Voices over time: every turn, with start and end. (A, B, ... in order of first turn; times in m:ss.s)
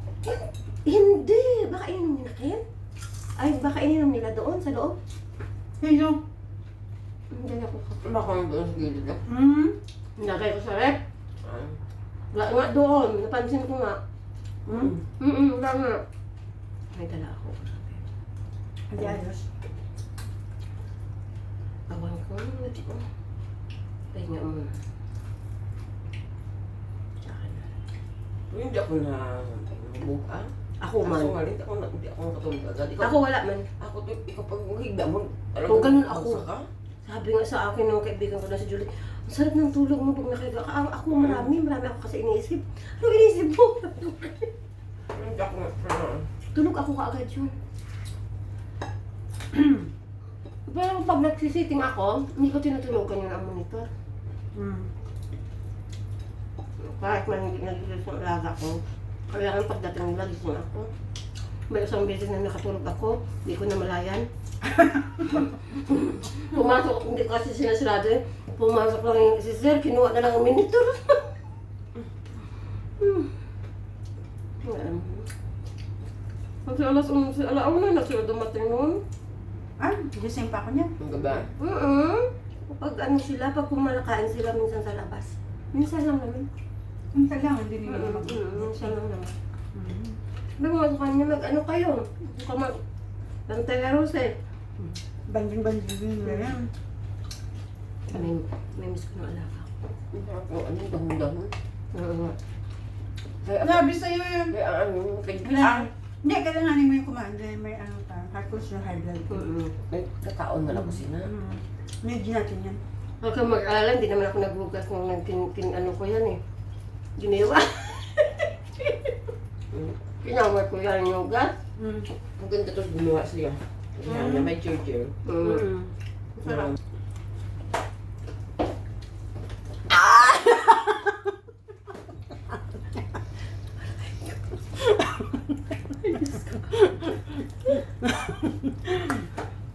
0:00.2-0:02.6 A
0:03.4-0:05.0 A
0:05.8-0:06.2 B
0:07.3-0:08.1 A
0:08.0-0:09.2 C
0:09.3-0:09.8 B
0:10.2-0:11.0 A
0:11.4-0:11.8 C
0:12.3-0:14.0 A
0:14.7-0:15.0 B
0:15.2-0:16.0 A
0:16.9-0:18.0 A
0:18.9-0:19.4 B
0:21.9-0:23.0 A
0:24.1-0:24.7 A
0:27.2-0:27.6 A
0:28.5-0:30.5 C
0:30.8-0:31.4 A
0:31.0-0:33.2 C
0:33.0-0:33.7 A
0:33.8-0:36.6 C
0:35.7-0:36.4 A
0:37.1-0:44.5 A
0:41.1-0:41.5 C
0:45.1-0:46.2 C
0:46.6-0:47.5 A
0:49.5-0:49.8 B
0:50.7-0:53.9 A
0:54.6-0:54.9 B
0:56.8-1:00.9 A
1:01.7-1:04.2 A
1:04.8-1:05.2 B
1:05.4-1:11.4 A
1:13.0-1:13.3 A
1:14.6-1:15.3 A
1:16.6-1:19.0 A
1:19.8-1:21.4 B
1:21.0-1:21.5 C
1:21.6-1:26.5 A
1:27.1-1:29.0 B
1:27.9-1:29.3 A
1:29.8-1:30.2 B
1:30.6-1:32.8 A
1:33.5-1:35.0 A
1:35.3-1:36.7 B
1:36.3-1:36.6 A
1:38.1-1:39.7 A
1:40.1-1:41.5 C
1:41.9-1:42.4 A
1:43.4-1:43.9 C
1:43.6-1:44.6 B
1:44.5-1:45.9 C
1:45.4-1:49.4 B
1:49.3-1:49.7 A
1:49.9-1:51.3 C
1:50.7-1:52.8 B
1:53.2-1:56.4 A
1:57.2-1:59.2 A
2:00.2-2:01.5 A
2:01.8-2:02.1 B
2:02.4-2:05.1 C
2:04.0-2:04.5 B
2:05.3-2:05.7 A
2:05.4-2:05.9 B
2:06.4-2:06.7 A
2:06.5-2:06.7 C
2:09.9-2:11.2 B
2:16.0-2:16.8 A
2:18.0-2:19.3 B